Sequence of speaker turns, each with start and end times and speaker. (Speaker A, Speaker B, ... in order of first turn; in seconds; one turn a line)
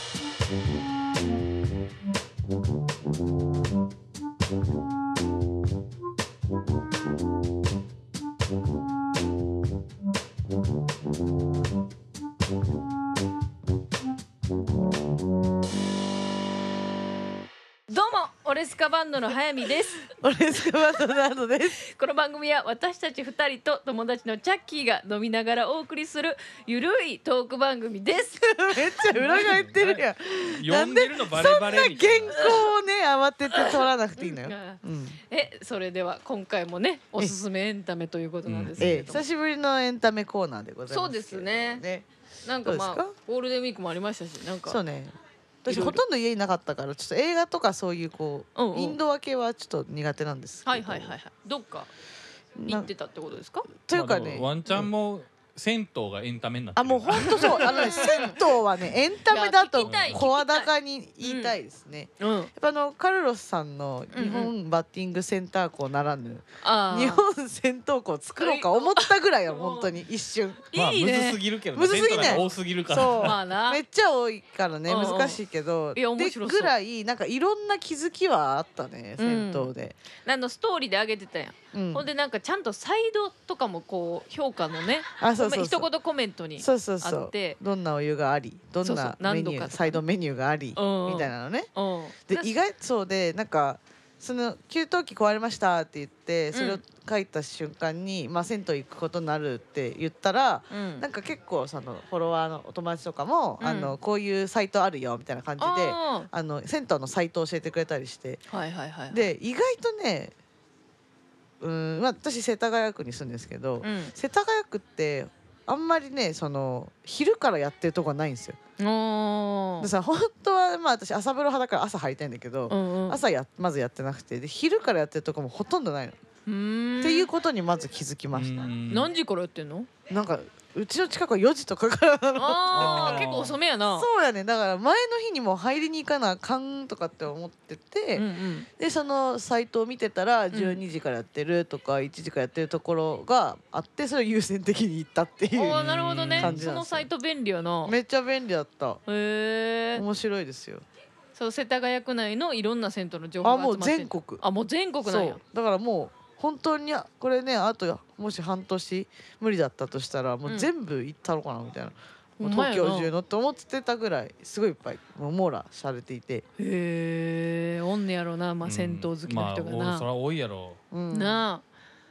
Speaker A: 17.9-20.1
Speaker B: 20.1-21.8
Speaker A: 21.8-28.5
Speaker B: 28.4-35.2
Speaker A: 29.1-29.5
Speaker C: 29.2-32.5
Speaker A: 32.4-32.6
Speaker A: 33.5-39.2
Speaker C: 38.5-38.9
Speaker B: 38.8-42.1
Speaker A: 40.9-41.8
Speaker A: 42.4-44.8
Speaker B: 42.6-43.1
Speaker B: 44.6-51.2
Speaker A: 45.7-46.0
Speaker A: 48.6-49.0
Speaker A: 50.6-51.9
Speaker B: 52.6-52.9
Speaker A: 52.7-53.7
Speaker B: 53.8-54.9
Speaker C: 53.9-58.2
Speaker B: 56.8-70.6
Speaker A: 57.4-58.4
Speaker A: 59.3-60.7
Speaker C: 59.8-60.2
Speaker A: 61.2-61.5
Speaker A: 62.2-62.5
Speaker A: 64.1-64.5
Speaker A: 66.6-67.2
Speaker A: 68.4-69.9
Speaker A: 70.7-72.5
Speaker C: 70.7-73.4
Speaker B: 71.8-80.0
Speaker A: 73.2-73.8
Speaker A: 74.9-75.4
Speaker A: 75.9-76.8
Speaker A: 79.2-79.7
Speaker A: 80.2-87.6
Speaker B: 81.7-82.1
Speaker B: 85.2-85.9
Speaker B: 86.6-91.7
Speaker A: 88.8-90.0
Speaker A: 90.8-92.5
Speaker B: 92.3-108.4
Speaker A: 96.5-96.8
Speaker A: 100.7-101.0
Speaker A: 103.6-104.0
Speaker A: 105.6-106.3
Speaker A: 108.5-109.3
Speaker B: 109.1-110.3
Speaker B: 111.6-118.6
Speaker A: 113.8-114.1
Speaker A: 118.8-119.9
Speaker B: 119.8-126.2
Speaker A: 122.7-123.2
Speaker A: 126.5-127.3
Speaker B: 127.0-128.7
Speaker C: 128.3-129.1
Speaker A: 128.9-129.9
Speaker B: 130.1-133.3
Speaker A: 132.4-134.1
Speaker C: 132.7-133.6
Speaker B: 133.9-145.8
Speaker A: 138.1-138.7
Speaker A: 140.5-140.8
Speaker A: 145.5-147.9
Speaker C: 145.7-146.6
Speaker B: 146.4-147.1
Speaker B: 147.8-149.0
Speaker A: 149.1-150.0
Speaker B: 149.9-150.8
Speaker A: 151.3-155.4
Speaker B: 153.4-154.4
Speaker B: 155.1-166.4
Speaker A: 160.4-160.7
Speaker A: 162.4-163.1
Speaker A: 166.6-170.1
Speaker C: 168.6-170.8
Speaker B: 170.9-171.4
Speaker A: 171.1-171.6